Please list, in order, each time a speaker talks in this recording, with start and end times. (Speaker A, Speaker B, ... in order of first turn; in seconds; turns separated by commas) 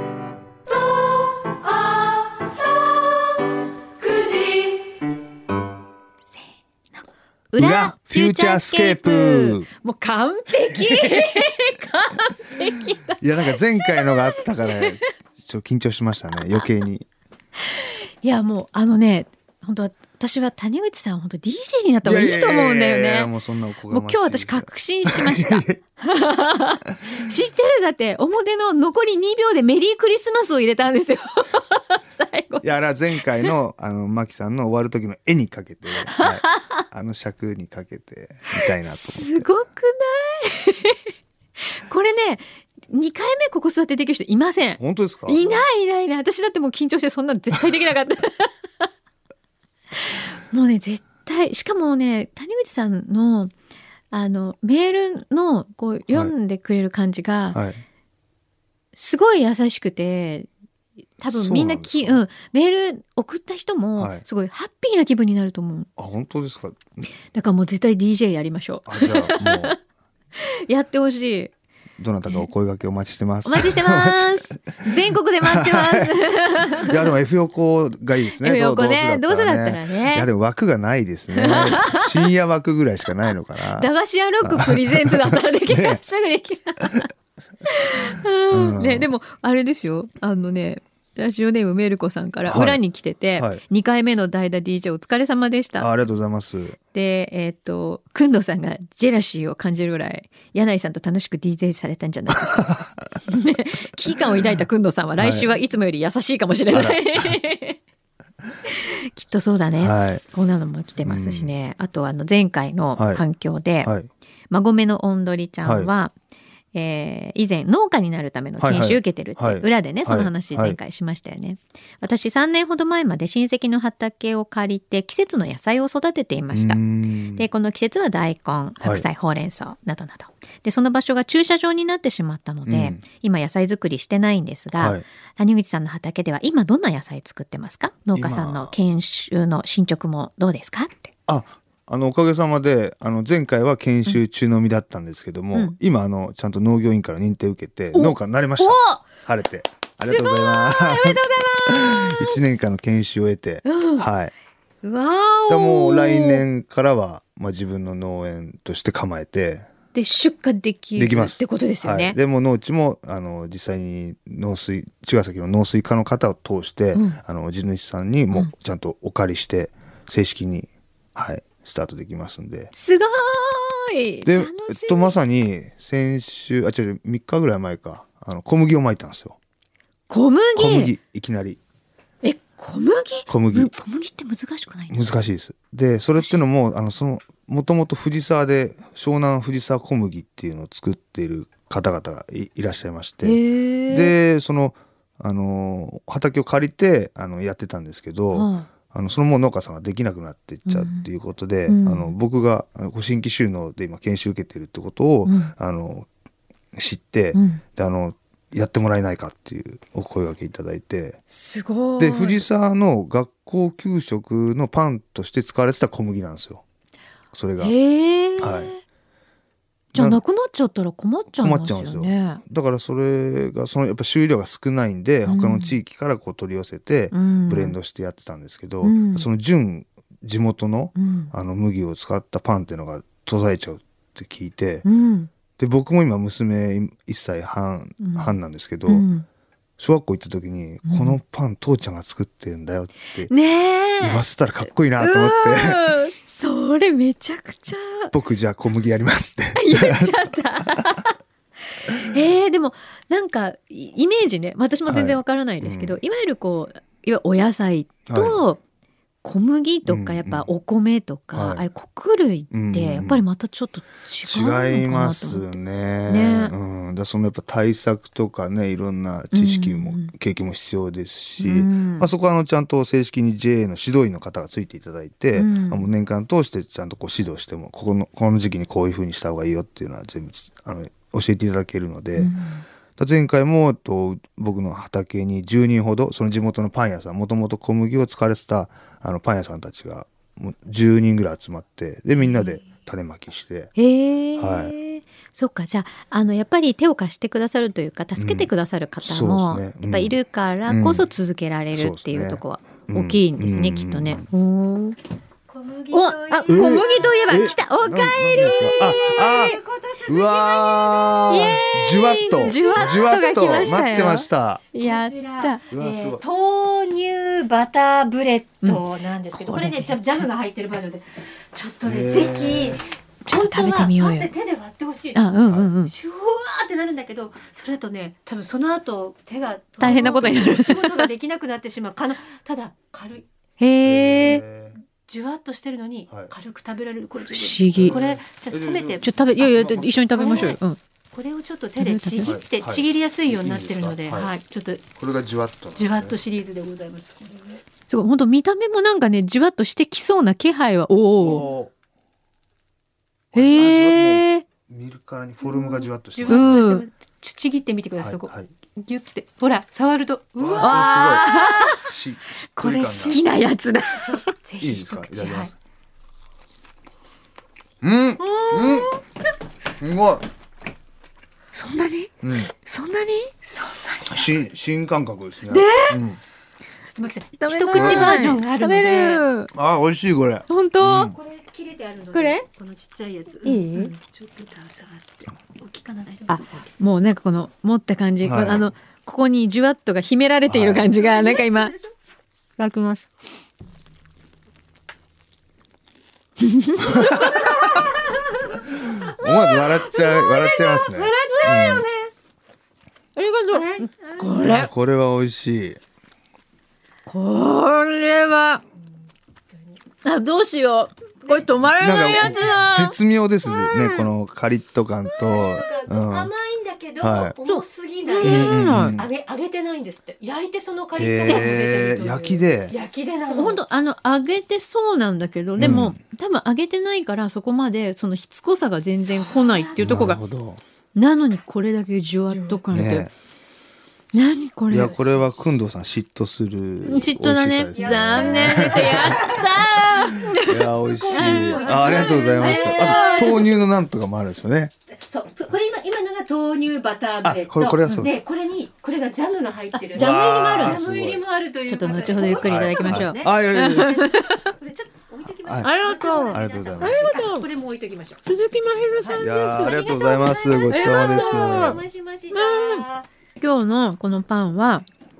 Speaker A: 0.7-3.4, Speaker A: 4.0-4.9, Speaker B: 7.5-15.1, Speaker C: 7.6-9.7, Speaker C: 13.2-17.1, Speaker B: 17.6-23.3, Speaker C: 22.0-25.8, Speaker B: 23.9-32.6, Speaker C: 32.6-39.5, Speaker B: 33.2-33.5, Speaker B: 36.0-36.8, Speaker B: 38.6-41.0, Speaker B: 41.6-48.5, Speaker C: 44.8-45.6, Speaker B: 49.9-53.5, Speaker B: 54.1-57.6, Speaker C: 57.5-57.8, Speaker B: 58.9-60.5, Speaker B: 61.2-65.9, Speaker C: 61.2-62.2, Speaker C: 64.0-64.2, Speaker C: 66.0-67.1, Speaker B: 67.3-69.8, Speaker C: 68.9-69.8, Speaker B: 70.4-71.5, Speaker C: 72.0-74.4, Speaker B: 73.4-77.1, Speaker C: 75.4-83.9, Speaker B: 78.4-80.3, Speaker B: 81.3-82.2, Speaker B: 83.7-87.1, Speaker C: 84.4-86.0, Speaker B: 87.6-95.9, Speaker C: 88.5-89.1, Speaker C: 92.5-92.8, Speaker C: 93.3-93.6, Speaker C: 95.8-96.8, Speaker B: 96.9-107.8, Speaker C: 105.2-105.5, Speaker C: 106.7-107.3, Speaker B: 108.7-113.9, Speaker C: 109.8-110.2, Speaker C: 111.0-111.5, Speaker C: 113.0-113.2, Speaker B: 114.5-116.1, Speaker C: 115.6-115.9, Speaker B: 116.7-126.8, Speaker C: 118.6-120.8, Speaker C: 126.5-127.5, Speaker B: 127.3-141.1, Speaker C: 128.8-129.1, Speaker C: 132.6-133.0, Speaker C: 134.8-135.0, Speaker C: 138.1-138.7, Speaker C: 141.3-154.3, Speaker B: 147.9-149.1, Speaker B: 150.1-152.4, Speaker B: 153.6-154.1, Speaker B: 154.8-156.4, Speaker C: 155.5-159.7, Speaker B: 159.9-162.2, Speaker C: 160.9-172.7, Speaker B: 172.8-175.2, Speaker C: 174.2-179.4, Speaker B: 180.1-180.9, Speaker C: 180.6-181.6, Speaker B: 182.2-185.1, Speaker C: 183.3-183.7, Speaker C: 184.9-206.1, Speaker B: 193.2-194.2, Speaker B: 198.3-198.7, Speaker B: 200.7-201.1, Speaker B: 201.7-202.1, Speaker B: 205.2-205.5, Speaker C: 206.7-211.2, Speaker B: 207.3-207.6, Speaker B: 211.3-212.4, Speaker C: 212.0-216.6, Speaker C: 217.3-217.7, Speaker B: 217.6-218.8, Speaker C: 218.4-218.7, Speaker C: 219.9-220.2, Speaker B: 219.9-222.4, Speaker C: 221.3-234.8, Speaker B: 225.2-225.8, Speaker B: 227.1-227.8, Speaker B: 228.8-229.3, Speaker B: 230.9-231.3, Speaker B: 234.8-235.3, Speaker C: 235.6-239.1, Speaker B: 238.0-239.2, Speaker C: 239.8-243.3, Speaker B: 240.9-241.2, Speaker B: 243.3-244.2, Speaker C: 244.0-245.9, Speaker B: 245.0-248.1, Speaker C: 248.1-250.2, Speaker B: 249.5-251.2, Speaker B: 251.8-258.6, Speaker C: 254.9-256.0, Speaker C: 258.1-258.4, Speaker B: 259.2-265.5, Speaker C: 259.9-260.5, Speaker C: 261.3-261.6, Speaker C: 262.5-263.2, Speaker C: 264.2-282.3, Speaker B: 266.1-266.5, Speaker B: 269.3-270.1, Speaker B: 271.4-272.1, Speaker B: 275.3-275.9, Speaker B: 282.1-282.6, Speaker C: 283.0-293.7, Speaker B: 292.2-292.6, Speaker B: 293.8-305.0, Speaker C: 294.4-294.7, Speaker C: 298.1-298.5, Speaker C: 299.0-301.0, Speaker C: 301.7-304.2, Speaker A: 305.5-307.6, Speaker B: 305.9-309.6, Speaker C: 306.5-314.6, Speaker A: 308.3-311.6, Speaker B: 311.3-315.7, Speaker A: 312.3-313.7, Speaker A: 314.8-325.2, Speaker C: 315.7-316.2, Speaker B: 318.6-320.3, Speaker C: 321.8-322.8, Speaker B: 323.2-324.3, Speaker B: 325.1-325.9, Speaker A: 325.9-333.2, Speaker B: 329.8-331.1, Speaker C: 329.8-330.5, Speaker B: 333.6-334.4, Speaker C: 333.8-334.8, Speaker A: 335.0-340.6, Speaker B: 337.3-338.0, Speaker C: 337.7-340.6, Speaker B: 339.0-340.8, Speaker A: 341.1-344.8, Speaker B: 341.8-342.3, Speaker C: 342.2-344.3, Speaker C: 344.9-346.2, Speaker A: 345.7-347.6, Speaker B: 347.9-351.4, Speaker C: 351.2-351.7, Speaker C: 353.3-356.8, Speaker B: 353.3-354.4, Speaker A: 355.6-361.8, Speaker B: 356.3-356.8, Speaker C: 358.0-358.5, Speaker C: 360.4-363.2, Speaker B: 360.6-361.9, Speaker B: 362.6-364.3, Speaker A: 362.9-363.2, Speaker A: 363.9-365.5, Speaker C: 364.6-365.5, Speaker C: 367.8-368.9, Speaker A: 368.2-369.0, Speaker C: 369.8-370.2, Speaker B: 371.5-373.5, Speaker C: 372.2-372.5, Speaker A: 373.6-374.0, Speaker C: 374.1-376.2, Speaker A: 375.5-376.0, Speaker A: 376.8-379.2, Speaker B: 377.4-379.5, Speaker C: 377.7-378.2, Speaker C: 379.5-381.1, Speaker B: 380.5-381.1, Speaker A: 380.9-386.4, Speaker B: 382.1-382.4, Speaker B: 383.4-383.9, Speaker B: 386.3-391.7, Speaker C: 388.2-388.7, Speaker C: 390.5-390.9, Speaker A: 390.9-391.9, Speaker B: 392.6-393.0, Speaker B: 396.4-397.8, Speaker C: 396.9-397.4, Speaker A: 397.4-397.9, Speaker C: 399.0-401.9, Speaker A: 399.1-402.1, Speaker B: 403.1-404.7, Speaker A: 403.5-404.4, Speaker C: 404.3-405.8, Speaker B: 407.1-408.6, Speaker B: 410.0-414.1, Speaker A: 411.3-412.4, Speaker C: 411.8-416.3, Speaker A: 415.2-423.6, Speaker C: 417.0-417.4, Speaker B: 417.4-419.0, Speaker C: 418.2-419.1, Speaker C: 420.9-422.7, Speaker B: 421.3-421.5, Speaker B: 423.3-430.2, Speaker C: 425.6-426.0, Speaker A: 429.0-429.9, Speaker C: 429.8-430.6, Speaker B: 430.9-433.1, Speaker A: 432.3-432.6, Speaker C: 432.7-433.1, Speaker B: 434.1-435.2, Speaker C: 434.7-439.2, Speaker B: 436.8-443.5, Speaker A: 437.7-440.0, Speaker C: 440.4-444.7, Speaker A: 440.9-443.6, Speaker A: 445.1-463.1, Speaker C: 447.2-448.1, Speaker B: 449.7-450.8, Speaker C: 449.9-451.2, Speaker B: 451.7-454.5, Speaker C: 452.2-454.0, Speaker C: 455.4-457.1, Speaker B: 455.6-457.4, Speaker B: 458.2-462.9, Speaker C: 459.2-461.8, Speaker B: 463.4-464.8